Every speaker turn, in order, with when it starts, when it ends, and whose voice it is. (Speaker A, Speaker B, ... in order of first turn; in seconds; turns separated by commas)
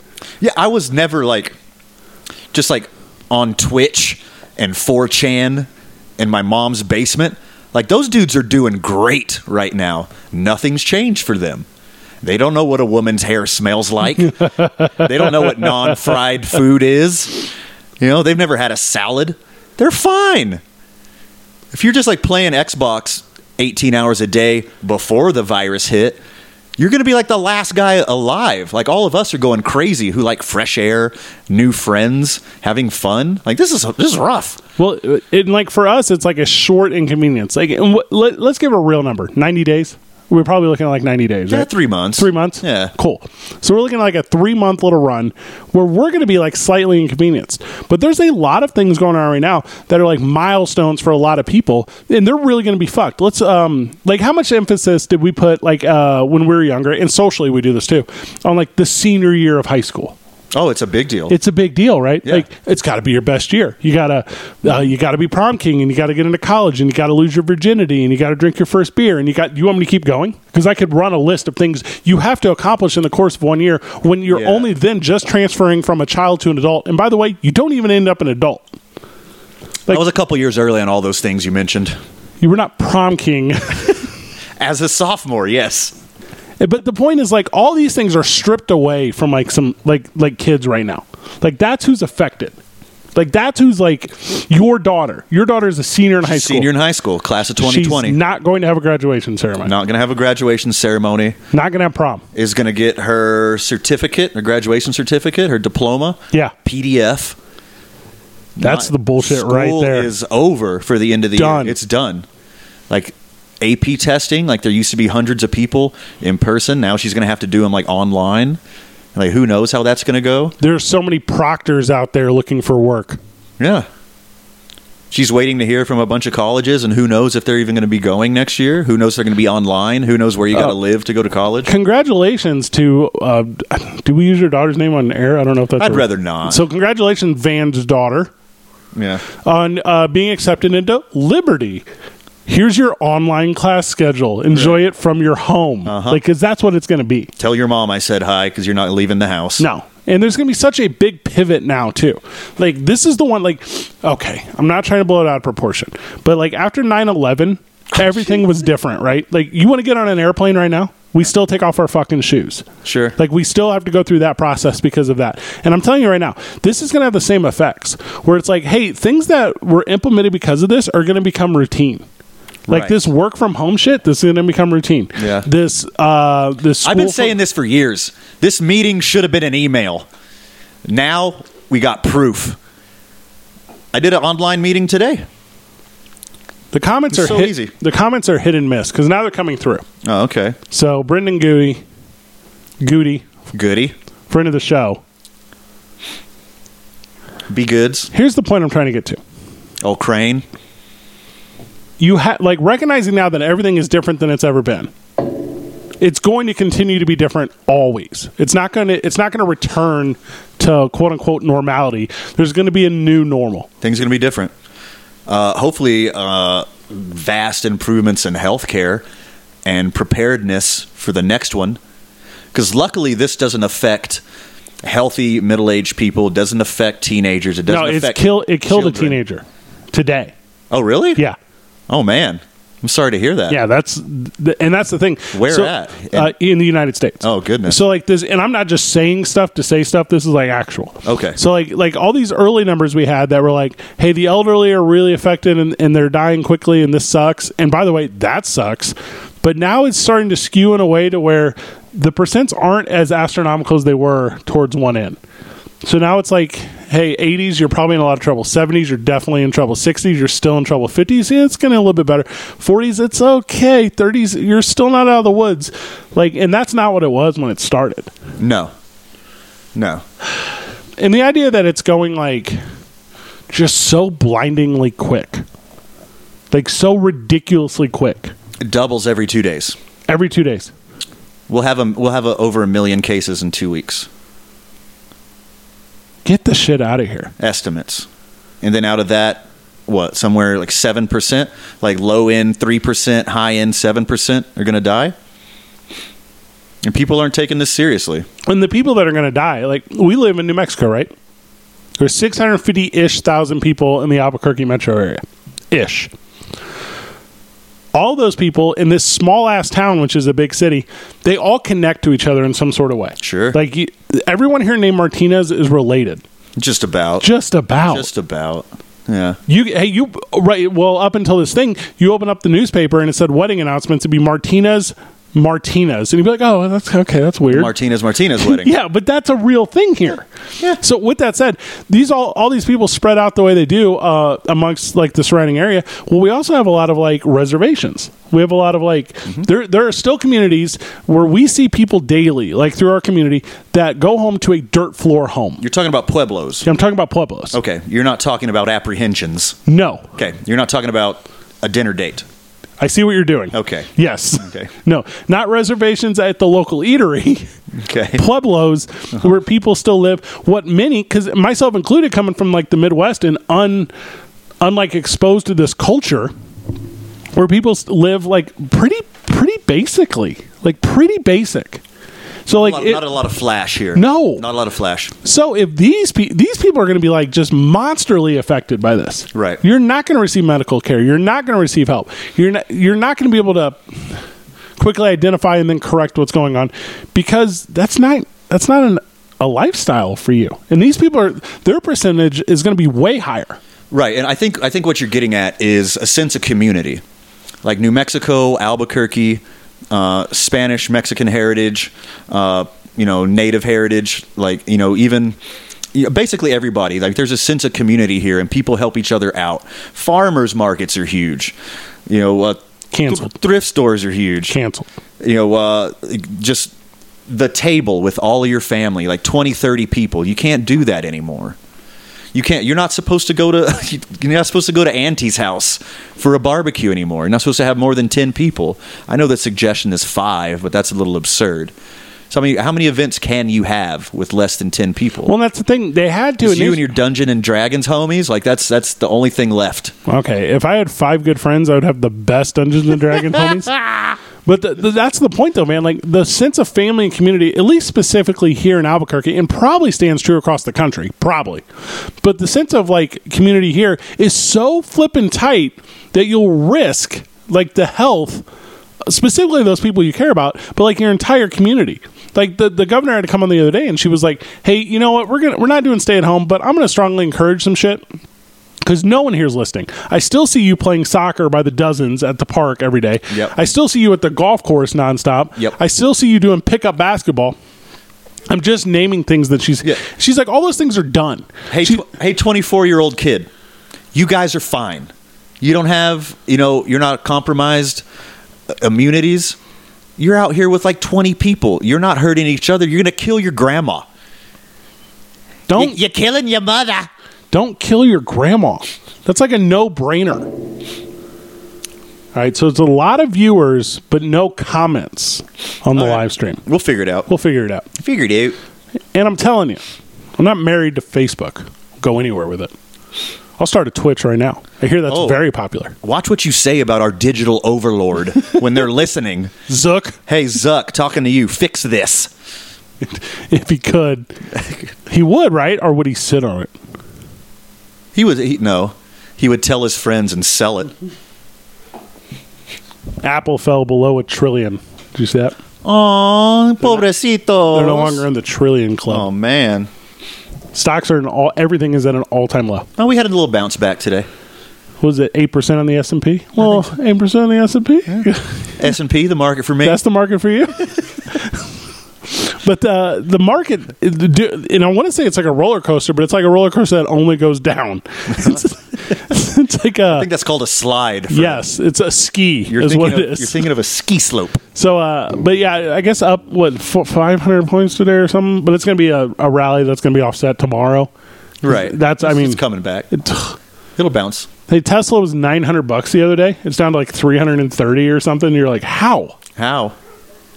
Speaker A: 0.4-1.5, Speaker A: 2.5-11.7, Speaker A: 12.2-20.6, Speaker B: 14.4-15.9, Speaker A: 21.7-26.2, Speaker A: 26.8-34.6, Speaker B: 34.8-60.1, Speaker A: 41.5-42.9, Speaker A: 60.5-61.4, Speaker B: 61.3-78.7, Speaker A: 74.3-74.7, Speaker A: 79.9-82.0, Speaker B: 82.4-84.0, Speaker A: 84.6-85.9, Speaker B: 86.6-92.5, Speaker B: 93.1-96.7, Speaker A: 96.2-98.2, Speaker B: 97.6-99.7, Speaker A: 99.6-101.4, Speaker B: 101.5-102.2, Speaker A: 102.3-107.3, Speaker A: 108.5-112.2, Speaker B: 108.6-110.1, Speaker B: 111.3-111.8, Speaker A: 112.9-118.6, Speaker A: 119.1-120.5, Speaker B: 120.6-123.2, Speaker A: 123.6-123.9, Speaker A: 125.1-131.7, Speaker B: 131.6-138.3, Speaker A: 135.8-136.6, Speaker A: 138.9-139.2, Speaker B: 139.4-141.8, Speaker B: 142.4-147.3, Speaker A: 144.5-144.8, Speaker A: 145.8-146.2, Speaker A: 147.4-149.7, Speaker B: 149.6-172.0, Speaker A: 162.8-163.2, Speaker A: 172.7-173.0, Speaker B: 172.7-177.3, Speaker A: 175.2-175.5, Speaker A: 176.8-180.1, Speaker A: 180.8-182.6, Speaker A: 183.9-185.2, Speaker B: 186.7-189.8, Speaker A: 187.1-187.7, Speaker A: 190.0-190.6, Speaker B: 190.7-191.8, Speaker B: 192.8-193.3, Speaker A: 193.5-193.9, Speaker B: 194.3-195.0, Speaker A: 197.5-198.1, Speaker B: 198.1-199.2, Speaker A: 199.8-200.4, Speaker B: 202.0-204.9, Speaker B: 206.0-213.7, Speaker A: 213.8-214.5, Speaker A: 215.3-219.0, Speaker A: 219.6-221.8, Speaker A: 222.5-224.2, Speaker A: 224.8-229.2, Speaker B: 227.7-230.3, Speaker A: 230.7-231.2, Speaker A: 231.9-233.6, Speaker B: 233.5-255.2, Speaker A: 235.3-236.3, Speaker A: 237.2-237.8, Speaker A: 241.0-241.4, Speaker B: 255.8-268.1, Speaker A: 268.4-268.7, Speaker A: 269.7-270.0, Speaker B: 271.0-272.6, Speaker B: 273.5-275.4, Speaker B: 276.5-278.3, Speaker A: 278.6-279.8, Speaker B: 280.1-280.7, Speaker A: 281.5-284.1, Speaker B: 286.2-287.3, Speaker A: 287.4-288.1, Speaker A: 288.6-295.1, Speaker A: 296.8-298.3, Speaker B: 298.4-301.1, Speaker B: 302.0-306.1, Speaker B: 307.9-316.2, Speaker A: 313.2-313.6, Speaker A: 316.6-317.3, Speaker B: 317.2-318.1, Speaker A: 317.9-319.4, Speaker B: 319.5-327.7, Speaker A: 327.5-328.7, Speaker B: 328.4-330.3, Speaker B: 330.8-345.6, Speaker A: 345.6-346.7, Speaker B: 346.6-347.6, Speaker A: 347.5-349.6, Speaker B: 349.7-350.1, Speaker A: 350.1-352.2, Speaker B: 352.8-357.5, Speaker A: 353.5-353.9, Speaker A: 354.4-354.7, Speaker A: 357.7-358.2, Speaker B: 358.1-363.9, Speaker B: 364.6-366.3, Speaker B: 367.3-371.8, Speaker B: 372.4-373.0, Speaker A: 372.5-375.1, Speaker B: 373.9-374.4, Speaker B: 375.2-384.2, Speaker A: 379.3-379.6, Speaker B: 384.8-393.6, Speaker A: 393.9-397.0, Speaker A: 397.6-405.4, Speaker A: 405.9-411.6, Speaker A: 412.1-414.6, Speaker B: 412.9-413.3, Speaker B: 414.5-414.9, Speaker A: 415.2-416.7, Speaker A: 417.3-421.6, Speaker A: 422.3-431.7, Speaker A: 432.3-435.3, Speaker B: 435.2-436.8, Speaker A: 436.4-439.9, Speaker B: 440.1-451.6, Speaker B: 452.2-458.4, Speaker B: 459.1-468.0, Speaker B: 468.8-477.6, Speaker A: 473.3-473.5, Speaker B: 478.5-482.0, Speaker A: 481.7-483.5, Speaker A: 484.1-488.0, Speaker A: 488.7-489.6, Speaker A: 490.2-494.1, Speaker B: 495.7-496.0, Speaker A: 495.7-497.1, Speaker B: 497.5-500.5, Speaker B: 502.3-506.6, Speaker A: 505.9-507.3, Speaker B: 507.3-507.9, Speaker A: 507.9-508.6, Speaker B: 509.1-509.8, Speaker B: 510.4-512.7, Speaker B: 513.6-515.9, Speaker A: 515.1-515.4, Speaker A: 516.0-519.5, Speaker B: 519.7-520.2, Speaker A: 520.3-522.3, Speaker B: 523.0-524.3, Speaker A: 524.5-524.9, Speaker B: 525.0-526.7, Speaker A: 528.1-530.9, Speaker B: 533.2-535.5, Speaker A: 535.8-538.2, Speaker B: 537.7-539.3, Speaker A: 539.1-539.9, Speaker B: 540.7-542.9, Speaker A: 543.0-544.3, Speaker B: 545.0-548.8, Speaker A: 548.1-550.0, Speaker B: 549.8-551.7, Speaker B: 552.3-560.3, Speaker A: 560.1-561.6, Speaker B: 561.3-563.6, Speaker A: 562.7-564.6, Speaker B: 564.7-571.1, Speaker A: 571.6-573.1, Speaker B: 571.6-573.6, Speaker A: 574.0-574.5, Speaker B: 574.7-579.3, Speaker A: 579.5-579.9